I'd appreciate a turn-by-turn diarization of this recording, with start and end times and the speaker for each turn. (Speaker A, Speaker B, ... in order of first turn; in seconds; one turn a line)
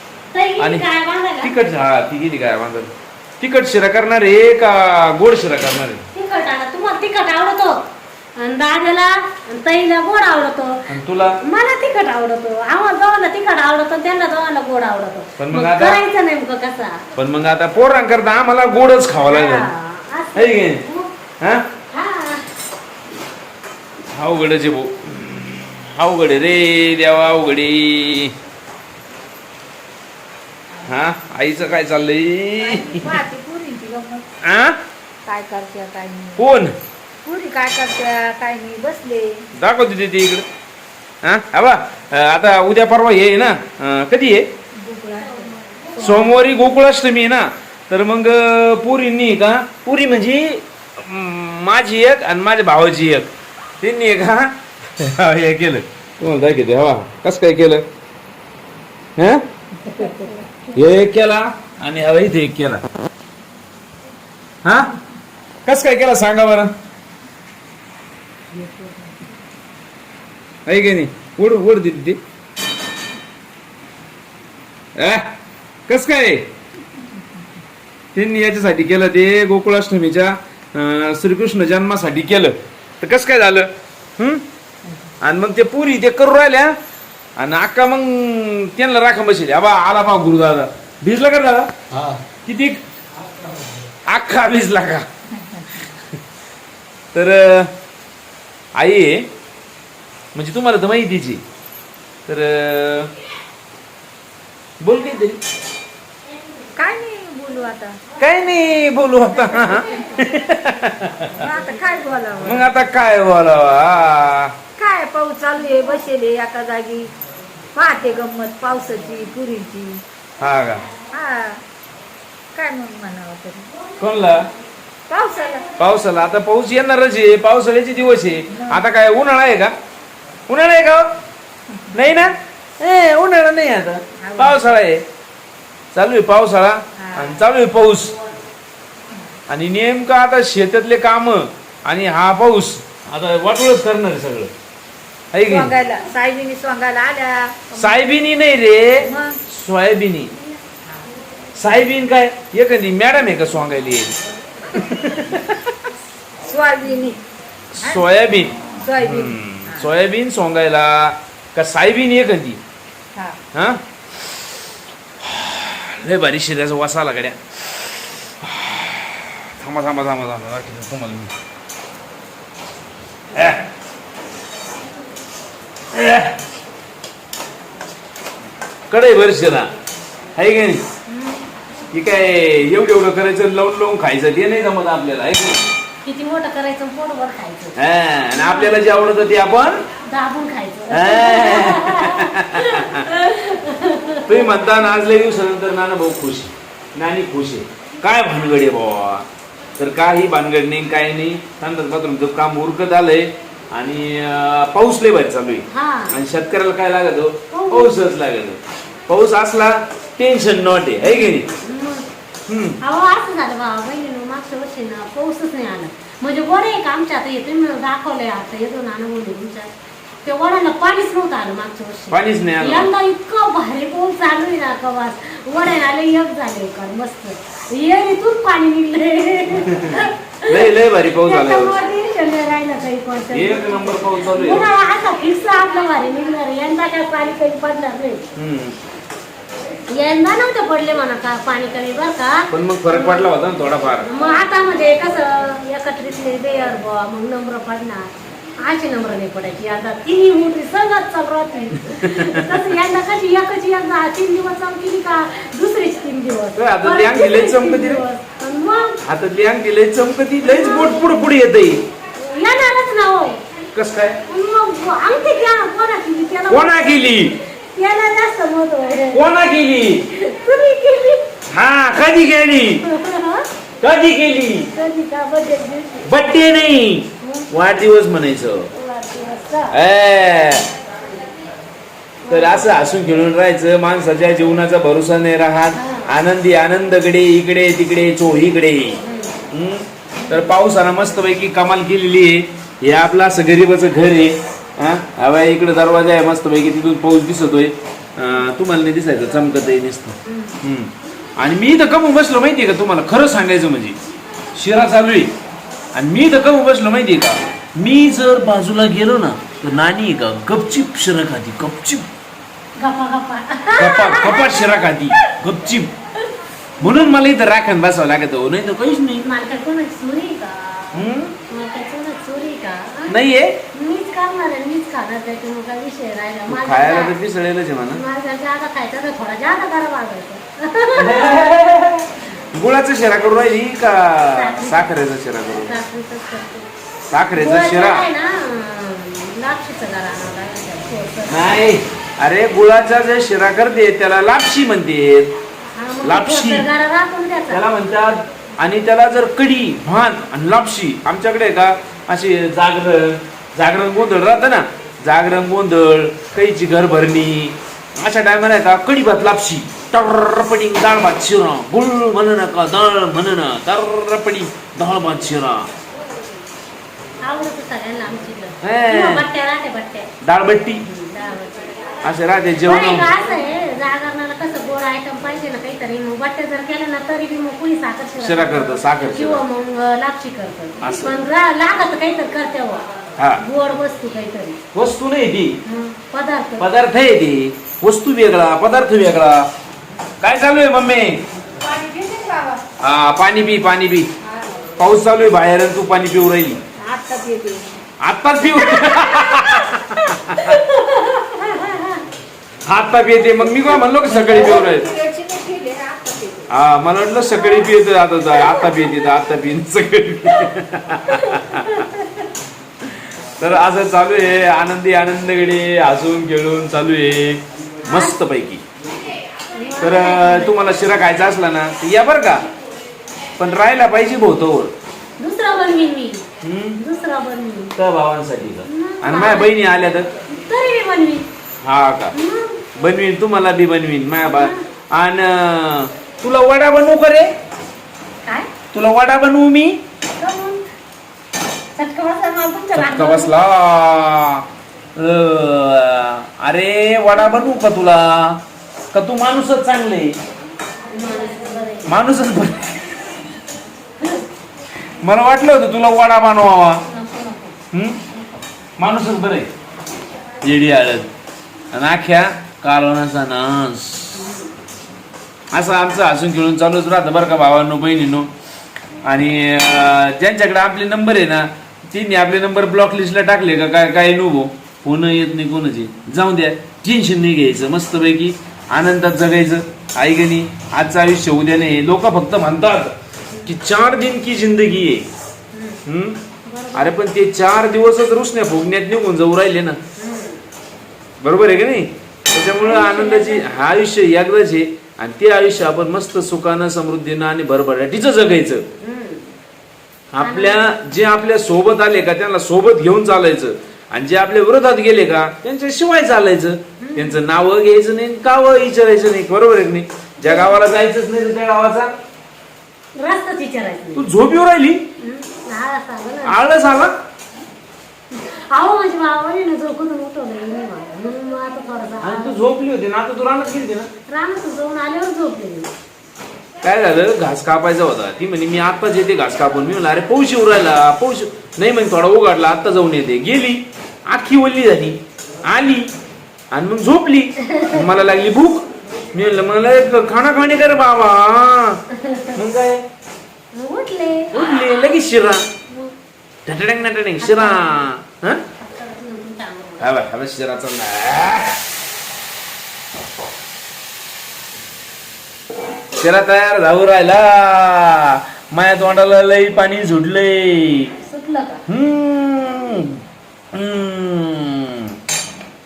Speaker A: 0.3-1.5
Speaker B: 0.6-0.8
Speaker B: 1.4-6.0
Speaker A: 6.1-7.8
Speaker A: 8.3-10.9
Speaker B: 10.9-11.4
Speaker A: 11.4-17.0
Speaker B: 15.4-16.0
Speaker B: 17.1-19.7
Speaker A: 19.2-21.1
Speaker B: 20.3-20.8
Speaker A: 21.9-22.4
Speaker B: 24.1-28.3
Speaker B: 30.8-33.1
Speaker C: 32.6-34.2
Speaker B: 34.4-34.8
Speaker C: 35.2-36.4
Speaker B: 36.4-36.7
Speaker C: 37.2-39.4
Speaker B: 39.5-40.4
Speaker B: 41.2-44.5
Speaker C: 44.8-46.3
Speaker A: 45.2-46.4
Speaker B: 46.0-57.8
Speaker B: 59.2-59.4
Speaker C: 59.8-60.6
Speaker B: 60.7-62.8
Speaker B: 64.6-64.9
Speaker B: 65.7-66.7
Speaker C: 68.5-68.9
Speaker B: 70.7-72.2
Speaker B: 75.0-75.3
Speaker B: 75.9-76.5
Speaker B: 78.1-84.4
Speaker B: 85.2-86.8
Speaker B: 87.4-91.7
Speaker B: 92.4-92.8
Speaker B: 94.1-95.0
Speaker B: 95.8-96.0
Speaker B: 97.1-97.7
Speaker B: 98.8-99.3
Speaker B: 100.3-101.4
Speaker B: 102.3-103.1
Speaker B: 104.8-105.4
Speaker C: 106.8-108.0
Speaker B: 108.2-111.4
Speaker A: 109.6-110.0
Speaker C: 111.4-112.7
Speaker B: 112.4-114.5
Speaker C: 114.8-117.1
Speaker C: 117.7-120.0
Speaker B: 120.4-120.8
Speaker C: 121.1-121.6
Speaker C: 122.5-123.7
Speaker B: 124.0-124.5
Speaker C: 125.1-125.7
Speaker B: 125.8-129.7
Speaker C: 128.5-128.8
Speaker B: 130.5-131.1
Speaker B: 131.9-135.0
Speaker C: 134.2-134.7
Speaker B: 135.9-138.1
Speaker C: 137.0-137.4
Speaker B: 139.5-144.5
Speaker B: 145.3-145.7
Speaker C: 145.5-147.9
Speaker B: 147.7-150.3
Speaker C: 149.0-149.4
Speaker B: 151.6-154.1
Speaker B: 154.7-155.5
Speaker C: 156.4-157.2
Speaker B: 157.7-162.6
Speaker C: 158.8-159.9
Speaker B: 163.5-164.3
Speaker B: 165.2-171.3
Speaker B: 173.3-173.7
Speaker B: 175.9-176.4
Speaker B: 178.9-179.7
Speaker B: 180.3-180.8
Speaker A: 181.1-181.4
Speaker B: 181.9-185.6
Speaker A: 186.0-187.8
Speaker B: 187.8-189.8
Speaker A: 188.3-188.8
Speaker A: 190.1-194.7
Speaker B: 190.9-193.1
Speaker B: 194.2-199.2
Speaker B: 199.8-211.5
Speaker A: 205.7-206.1
Speaker A: 207.5-208.0
Speaker A: 211.0-212.1
Speaker B: 212.5-212.8
Speaker A: 212.8-219.7
Speaker A: 220.2-238.2
Speaker B: 222.1-222.9
Speaker B: 229.6-231.8
Speaker B: 233.3-234.7
Speaker B: 238.3-238.8
Speaker A: 239.9-243.4
Speaker B: 242.5-244.1
Speaker A: 244.0-248.1
Speaker A: 248.6-259.0
Speaker B: 251.9-252.5
Speaker B: 256.6-258.0
Speaker B: 259.0-261.8
Speaker A: 260.4-261.2
Speaker A: 262.2-263.4
Speaker B: 263.7-264.2
Speaker A: 264.3-266.9
Speaker B: 266.5-267.3
Speaker A: 267.7-269.2
Speaker B: 269.1-270.0
Speaker A: 270.1-271.3
Speaker B: 271.5-272.8
Speaker A: 272.8-273.5
Speaker B: 273.8-274.7
Speaker A: 274.7-276.1
Speaker B: 276.0-278.7
Speaker A: 277.2-277.5
Speaker A: 278.7-279.8
Speaker B: 279.7-280.6
Speaker A: 282.2-283.0
Speaker B: 282.3-289.0
Speaker A: 285.7-286.1
Speaker A: 289.0-289.4
Speaker B: 289.5-304.0
Speaker A: 290.2-290.5
Speaker A: 300.2-300.6
Speaker B: 304.5-305.3
Speaker B: 305.9-312.1
Speaker A: 312.8-315.3
Speaker B: 313.8-315.9
Speaker B: 316.8-319.2
Speaker A: 319.2-323.1
Speaker B: 320.9-321.3
Speaker B: 323.1-323.6
Speaker A: 323.7-327.1
Speaker B: 326.5-328.0
Speaker A: 327.9-331.4
Speaker B: 330.9-335.8
Speaker A: 334.3-334.9
Speaker A: 335.5-336.7
Speaker B: 337.1-338.1
Speaker A: 337.3-341.6
Speaker B: 341.3-345.3
Speaker A: 345.8-347.6
Speaker B: 346.0-346.6
Speaker B: 347.5-365.7
Speaker A: 367.2-370.1
Speaker B: 368.6-369.2
Speaker B: 370.2-370.8
Speaker A: 370.8-371.8
Speaker B: 372.0-373.1
Speaker A: 372.6-382.8
Speaker B: 378.2-379.4
Speaker B: 380.8-381.1
Speaker A: 383.4-384.6
Speaker B: 384.7-385.6
Speaker A: 385.6-386.7
Speaker B: 386.6-389.5
Speaker B: 390.2-391.2
Speaker C: 391.6-392.6
Speaker B: 392.8-394.1
Speaker B: 394.8-396.6
Speaker C: 396.8-397.8
Speaker B: 398.0-400.6
Speaker A: 398.6-402.0
Speaker B: 402.6-404.9
Speaker C: 404.0-406.5
Speaker B: 406.5-411.9
Speaker A: 407.2-407.7
Speaker A: 408.3-409.1
Speaker A: 411.1-412.2
Speaker B: 412.8-418.6
Speaker A: 417.8-418.2
Speaker A: 419.5-420.9
Speaker B: 419.8-422.4
Speaker B: 423.4-424.7
Speaker A: 425.2-426.2
Speaker B: 426.4-426.8
Speaker A: 426.8-427.7
Speaker B: 427.8-430.1
Speaker A: 428.6-429.6
Speaker A: 430.2-431.2
Speaker B: 431.6-432.1
Speaker A: 432.1-432.7
Speaker B: 432.7-437.3
Speaker A: 434.2-434.6
Speaker A: 438.2-438.5
Speaker B: 438.7-439.8
Speaker A: 440.2-440.6
Speaker A: 441.7-443.3
Speaker B: 442.7-444.4
Speaker B: 444.9-448.4
Speaker A: 447.2-447.6
Speaker B: 448.9-450.1
Speaker A: 450.9-451.9
Speaker B: 451.9-452.8
Speaker B: 455.0-456.8
Speaker A: 456.8-457.6
Speaker B: 457.7-458.0
Speaker B: 458.8-459.5
Speaker B: 460.4-461.1
Speaker B: 461.7-464.2
Speaker A: 464.1-464.5
Speaker B: 465.5-468.3
Speaker B: 469.0-482.9
Speaker B: 483.4-485.1
Speaker A: 485.5-485.8
Speaker B: 485.8-486.2
Speaker A: 486.4-486.9
Speaker B: 486.7-489.8
Speaker A: 490.0-490.4
Speaker B: 491.2-498.6
Speaker A: 492.6-493.6
Speaker A: 498.8-499.3
Speaker B: 500.1-511.9
Speaker A: 500.2-500.7
Speaker A: 506.8-507.2
Speaker A: 510.2-510.6
Speaker A: 513.0-514.1
Speaker B: 513.9-514.8
Speaker A: 515.0-516.4
Speaker B: 516.2-516.9
Speaker A: 518.1-522.4
Speaker B: 522.0-523.9
Speaker A: 524.1-525.7
Speaker B: 526.6-535.9
Speaker B: 536.5-541.8
Speaker A: 537.5-537.8
Speaker A: 542.0-542.3
Speaker B: 542.3-542.8
Speaker A: 543.5-545.0
Speaker B: 544.3-545.4
Speaker A: 545.7-545.9
Speaker B: 546.5-548.4
Speaker A: 547.2-547.9
Speaker A: 548.6-550.0
Speaker B: 549.8-551.6
Speaker B: 556.0-560.9
Speaker A: 561.0-561.6
Speaker B: 561.7-563.0
Speaker B: 563.5-564.9